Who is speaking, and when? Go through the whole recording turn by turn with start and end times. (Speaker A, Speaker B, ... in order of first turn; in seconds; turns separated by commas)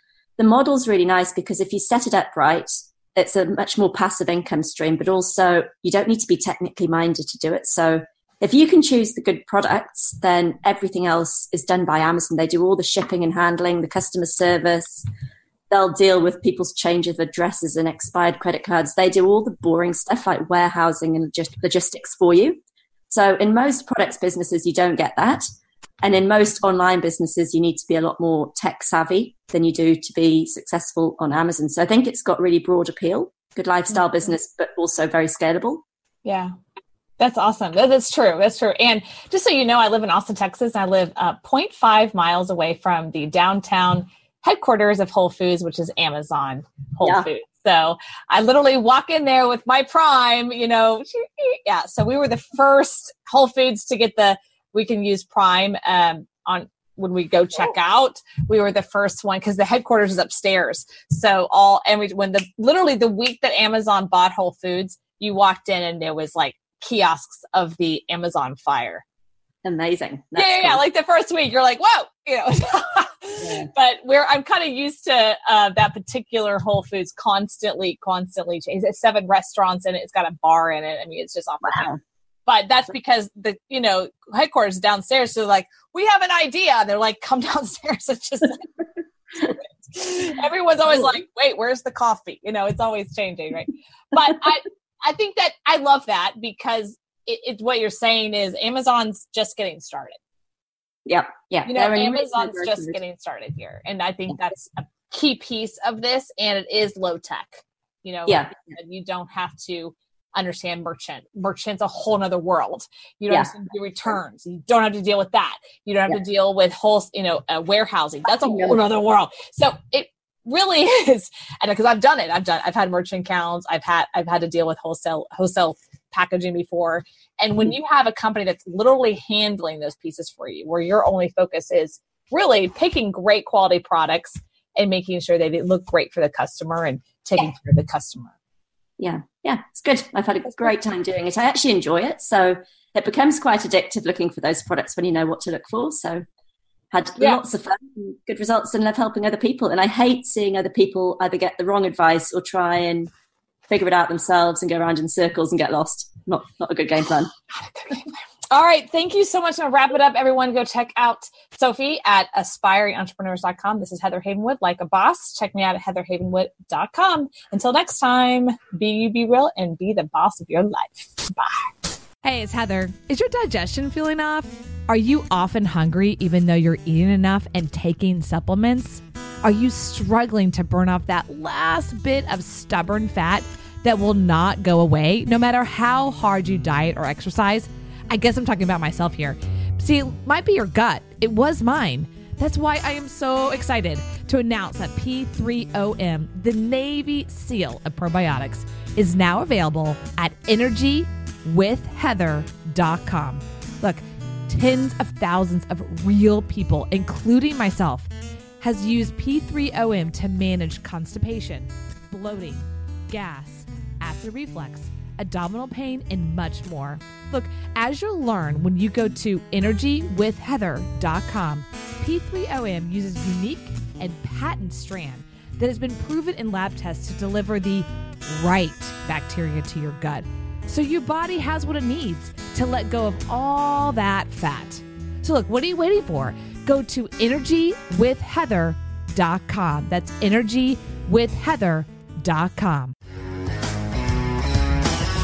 Speaker A: 0.4-15.1, Speaker A: 15.7-25.4, Speaker A: 26.0-35.8, Speaker B: 36.2-36.5, Speaker B: 37.2-69.0, Speaker A: 47.0-47.3, Speaker A: 69.6-70.8, Speaker B: 70.4-81.9, Speaker A: 73.4-73.7, Speaker A: 81.6-82.0, Speaker B: 82.5-88.7, Speaker B: 89.4-100.2, Speaker A: 101.1-103.0, Speaker B: 101.6-138.3, Speaker A: 108.3-108.5, Speaker A: 118.3-118.8, Speaker A: 139.0-146.2, Speaker A: 146.9-153.1, Speaker A: 153.7-157.3, Speaker B: 157.6-171.7, Speaker C: 172.2-208.1, Speaker C: 208.6-242.9